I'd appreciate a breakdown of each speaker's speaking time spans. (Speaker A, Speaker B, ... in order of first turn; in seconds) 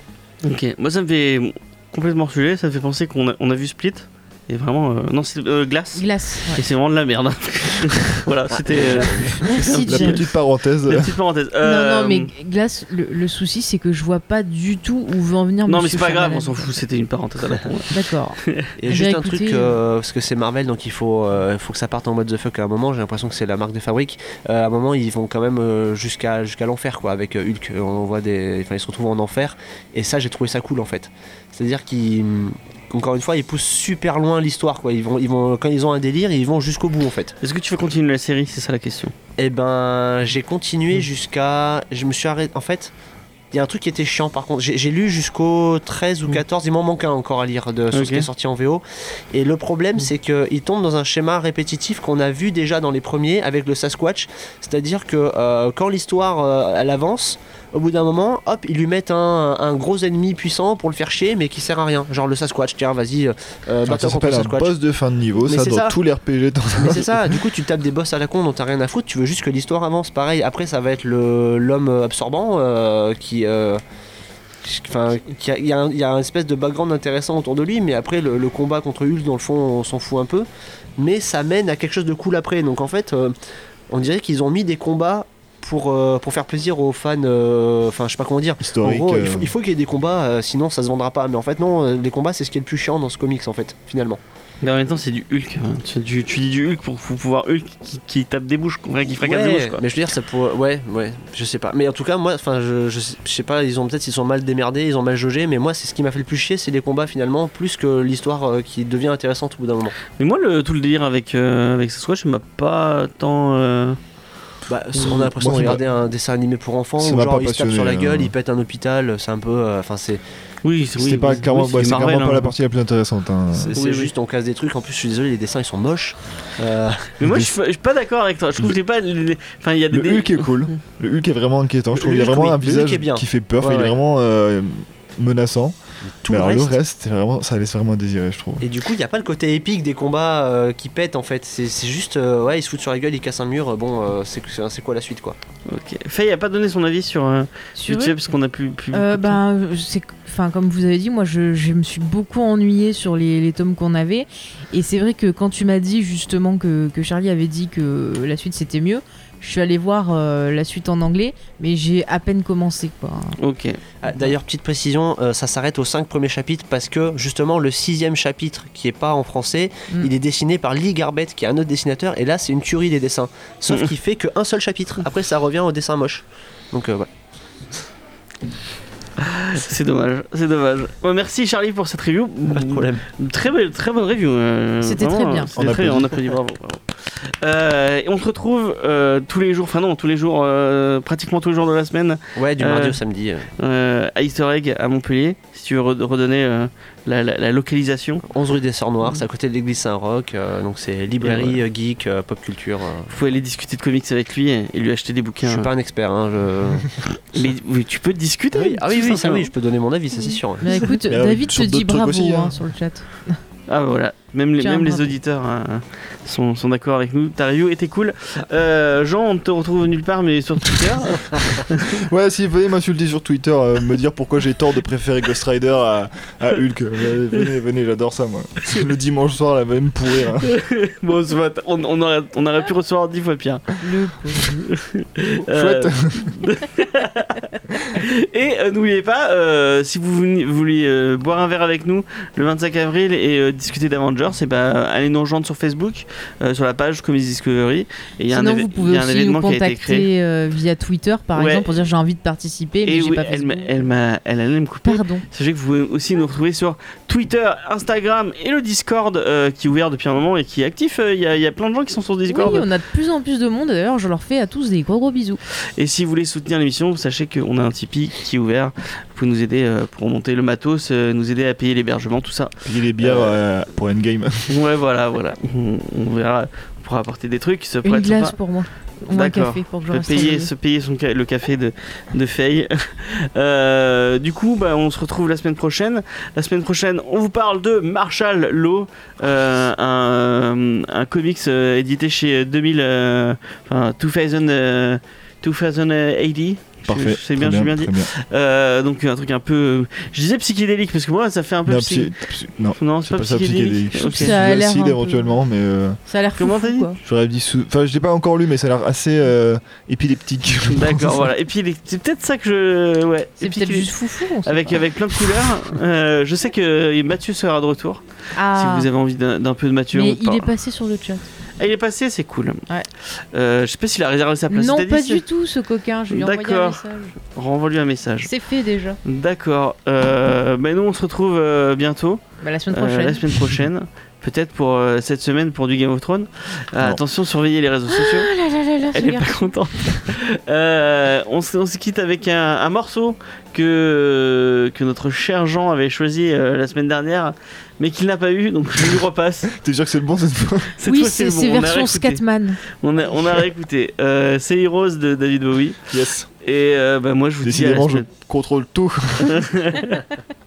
Speaker A: 0.4-10.2, 10.8-12.3, 15.7-18.7, 37.4-39.1, 47.9-48.3, 94.6-99.8, 110.1-114.0, 120.6-122.5, 123.8-124.1, 127.2-130.5, 145.7-149.4, 163.4-163.8, 179.2-193.0, 193.6-198.2, 201.2-201.6, 203.1-205.7, 207.3-209.5, 213.7-222.0, 230.4-233.8, 234.3-250.1, 251.3-251.7, 252.8-262.7, 265.8-273.4, 274.5-278.3, 279.1-302.1, 302.8-304.3, 306.4-306.9, 310.7-318.0, 318.5-320.5, 321.6-325.2, 326.1-328.3, 329.0-338.3, 338.9-349.5, 350.8-352.2, 352.8-355.8, 356.4-358.1, 359.2-360.0
Speaker B: 5.9-6.6, 9.4-10.2, 11.6-16.7, 17.9-18.4, 18.9-19.8, 147.8-148.3, 148.9-163.4, 184.8-185.5, 210.6-213.4, 214.6-215.1, 233.8-234.5, 248.3-253.9, 254.8-255.2, 262.3-265.4, 277.8-280.5, 303.9-305.3, 306.1-307.0, 313.4-314.8, 318.3-318.9, 319.9-321.2, 324.5-327.1, 328.2-329.0, 332.4-333.5, 337.9-339.5, 350.8-352.6
Speaker C: 8.7-9.5, 18.8-37.3, 39.4-42.9, 43.5-64.7, 65.4-65.9, 66.8-73.8, 74.6-83.3, 83.9-94.2, 99.2-110.0, 114.7-120.2, 123.5-127.2, 131.9-133.9, 136.1-136.8, 138.6-145.4, 164.0-177.1, 182.5-183.0, 192.3-193.5, 198.3-203.1, 205.4-206.9, 208.5-210.9
Speaker D: 9.8-11.1, 63.8-67.4, 88.6-89.5, 115.1-115.8, 117.0-118.3, 121.0-123.7, 127.2-127.5, 129.9-135.8, 136.3-138.6, 185.6-186.2, 211.1-212.6, 221.9-230.5, 235.4-236.3, 272.6-274.6, 296.9-298.1, 301.6-306.0, 307.0-311.3, 349.5-350.7, 355.9-356.3, 357.4-359.4